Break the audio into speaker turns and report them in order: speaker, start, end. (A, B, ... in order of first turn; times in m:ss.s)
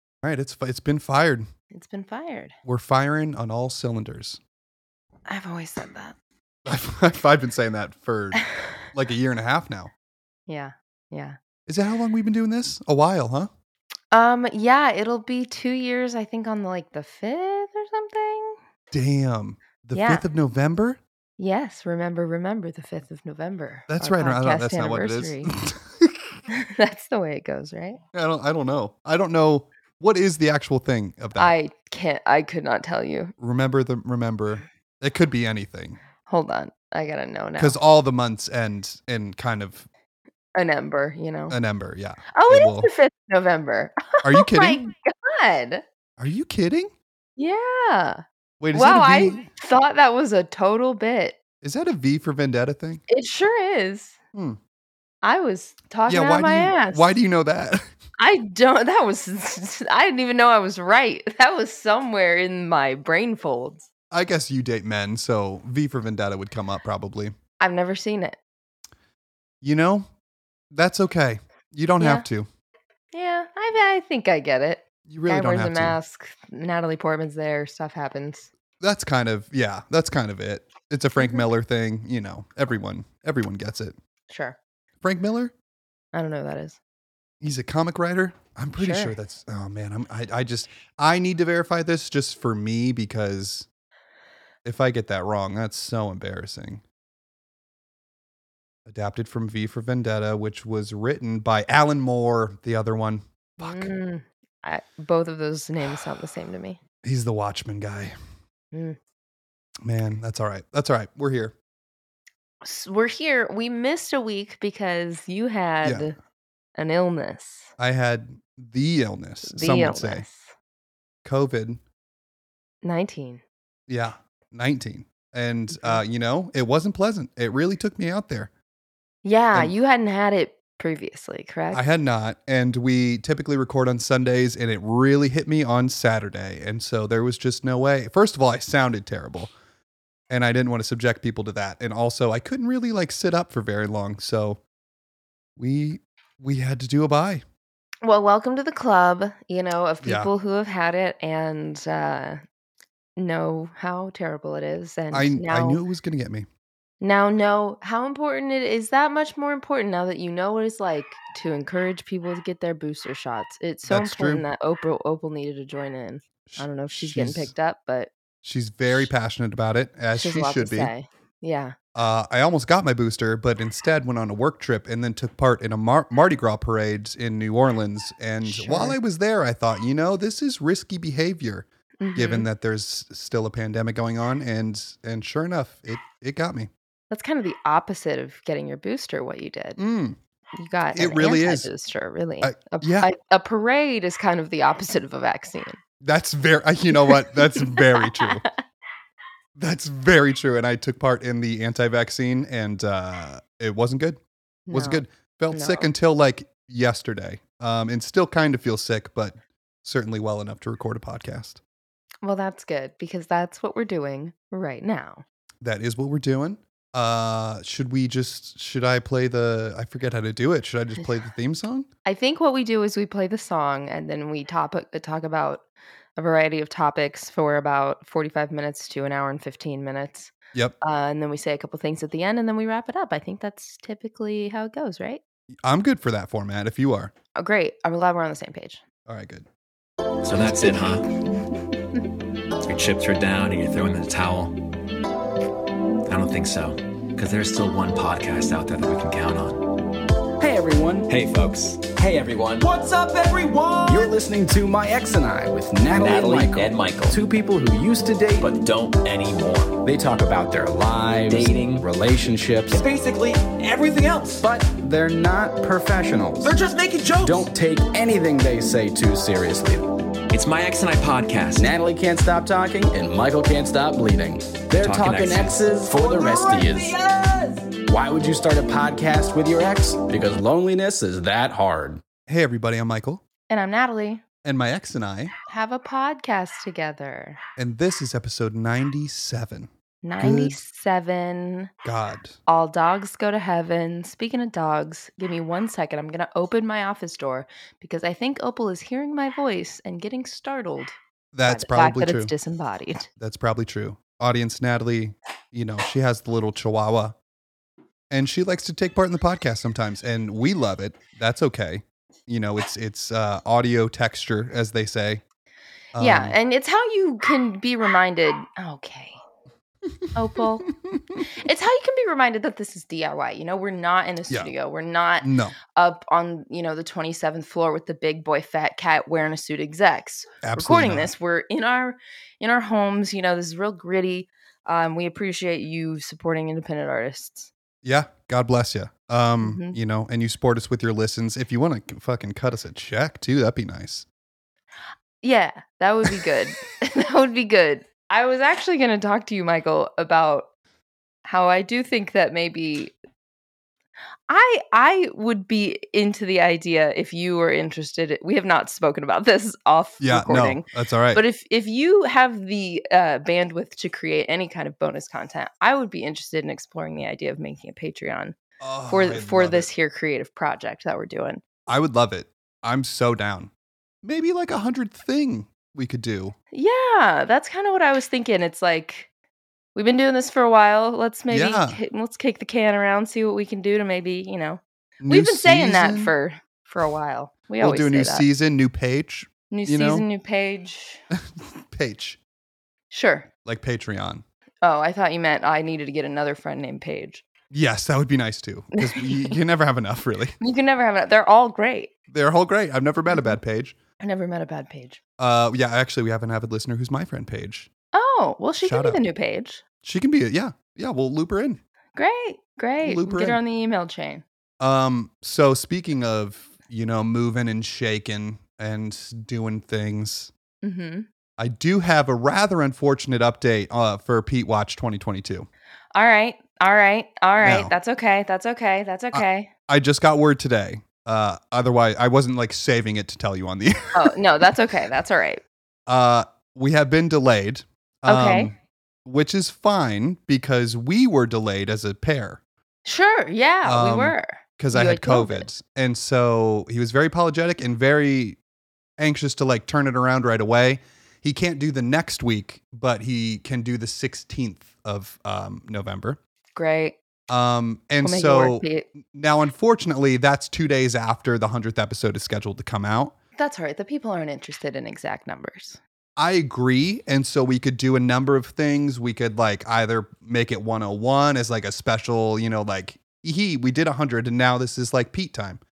0:00.2-0:01.5 A
0:01.7-0:02.5 B
0:02.6-0:04.4 A
0:05.3-0:06.2 B
0:06.6-0:09.9 A
0:10.5-0:11.4 B
0:11.7-0:13.5 A
0:14.1-0:18.6 B
0:18.9-0:21.0 A
0:19.9-0:20.2 B
0:21.4-0:25.5 B
0:23.9-0:26.3 A
0:26.5-0:28.0 B
0:28.1-0:31.5 A
0:31.3-0:33.3 B
0:33.4-0:36.0 A
0:36.3-0:37.8 B
0:37.6-0:39.9 A
0:40.5-0:41.6 B
0:41.5-0:42.9 A
0:42.3-0:45.8 B
0:44.2-0:44.8 A
0:46.2-0:46.9 A
0:47.4-0:51.4 B
0:48.6-0:49.5 A
0:51.6-0:53.0 A
0:53.1-0:54.2 B
0:54.3-0:54.6 A
0:55.2-0:57.2 B
0:56.1-0:57.8 A
0:58.2-1:03.9 B
1:04.1-1:07.3 A
1:07.6-1:08.4 B
1:09.6-1:10.1 A
1:10.7-1:12.5 A
1:12.0-1:12.2 B
1:13.1-1:18.5 B
1:15.1-1:16.0 A
1:18.8-1:24.0 A
1:21.2-1:21.4 B
1:24.3-1:24.6 B
1:25.0-1:25.5 A
1:26.1-1:26.8 B
1:27.4-1:33.7 A
1:28.8-1:29.1 B
1:34.6-1:36.8 A
1:38.8-1:43.9 A
1:43.6-1:46.8 B
1:47.0-1:48.1 A
1:48.7-1:49.0 B
1:49.8-1:51.5 A
1:52.6-1:56.2 B
1:56.8-1:57.7 B
1:57.8-2:00.2 A
1:59.4-2:00.5 B
2:01.2-2:01.8 A
2:02.8-2:03.4 B
2:03.9-2:08.5 A
2:05.7-2:06.0 B
2:09.2-2:11.8 B
2:11.7-2:19.5 A
2:20.3-2:24.6 A
2:25.6-2:27.4 A
2:28.0-2:32.4 B
2:30.0-2:30.3 A
2:33.2-2:35.8 B
2:35.1-2:36.5 A
2:37.0-2:48.1 B
2:43.9-2:44.4 A
2:46.4-2:47.5 A
2:48.4-2:50.9 A
2:50.1-2:51.8 B
2:51.9-3:06.7 A
2:58.4-2:59.0 B
3:02.0-3:02.5 B
3:07.1-3:09.8 B
3:09.8-3:10.2 A
3:10.6-3:15.8 B
3:10.9-3:11.7 A
3:12.4-3:13.1 A
3:16.0-3:18.4 A
3:17.1-3:18.5 B
3:19.6-3:24.2 A
3:24.7-3:25.9 B
3:24.7-3:31.6 A
3:32.2-3:35.2 B
3:35.6-3:41.9 A
3:42.0-3:45.6 B
3:46.2-3:55.2 B
3:55.6-3:57.1 A
3:57.4-3:58.8 B
3:59.0-3:59.4 A
4:00.2-4:01.1 C
4:02.6-4:04.6 C
4:06.0-4:09.7 C
4:10.4-4:11.1 D
4:11.1-4:12.7 C
4:12.6-4:14.1 E
4:13.9-4:18.5 D
4:15.9-4:17.2 C
4:18.4-4:19.8 C
4:19.8-4:22.8 D
4:21.3-4:21.9 C
4:22.7-4:24.4 C
4:22.8-4:24.2 E
4:24.4-4:26.5 D
4:26.4-4:27.5 E
4:27.2-4:29.8 D
4:30.3-4:31.7 C
4:31.6-4:36.9 D
4:34.8-4:35.6 C
4:35.8-4:37.8 E
4:37.8-4:42.0 D
4:42.3-4:43.2 A
4:43.5-4:44.2 B
4:44.4-4:45.3 A
4:45.5-4:47.4 B
4:47.6-4:50.6 A
4:50.0-4:51.7 B
4:51.8-4:52.4 A
4:52.5-5:03.1 B
5:01.3-5:02.3 A
5:03.2-5:07.2 A
5:08.1-5:15.2 A
5:15.9-5:16.4 A
5:16.0-5:19.2 B
5:20.1-5:20.7 B
5:20.7-5:21.2 A
5:21.2-5:37.5 B
5:25.2-5:25.6 A
5:30.4-5:31.1 A
5:37.8-5:44.0 A
5:39.4-5:39.8 B
5:45.2-5:50.5 B
5:51.2-5:52.9 B
5:54.3-6:08.4 B
6:00.0-6:01.2 A
6:08.6-6:09.7 A
6:08.9-6:11.4 B
6:11.7-6:13.5 A
6:14.0-6:16.3 A
6:16.5-6:19.1 B
6:19.7-6:28.2 B
6:21.3-6:21.8 A
6:25.0-6:26.1 A
6:27.6-6:30.0 A
6:29.5-6:31.0 B
6:31.1-6:32.2 A
6:32.9-6:33.3 B
6:33.4-6:34.2 A
6:34.6-6:37.2 B
6:37.5-6:40.4 A
6:38.8-6:39.1 B
6:40.4-6:41.9 B
6:42.1-6:43.8 A
6:43.1-6:43.4 B
6:44.0-6:45.0 B
6:45.2-6:47.7 A
6:47.9-6:49.6 B
6:48.6-6:49.0 A
6:49.8-6:51.6 A
6:51.9-6:54.2 B
6:52.8-6:53.4 A
6:54.6-7:00.3 A
7:00.6-7:01.1 B
7:01.4-7:05.5 A
7:05.9-7:09.5 B
7:07.4-7:07.7 A
7:09.1-7:14.1 A
7:13.9-7:15.4 B
7:15.9-7:22.4 A
7:18.1-7:18.5 B
7:22.8-7:25.4 B
7:23.6-7:28.4 A
7:29.0-7:36.2 A
7:36.5-7:37.0 B
7:37.3-7:43.1 A
7:38.0-7:38.9 B
7:43.4-7:45.8 B
7:46.2-7:55.6 A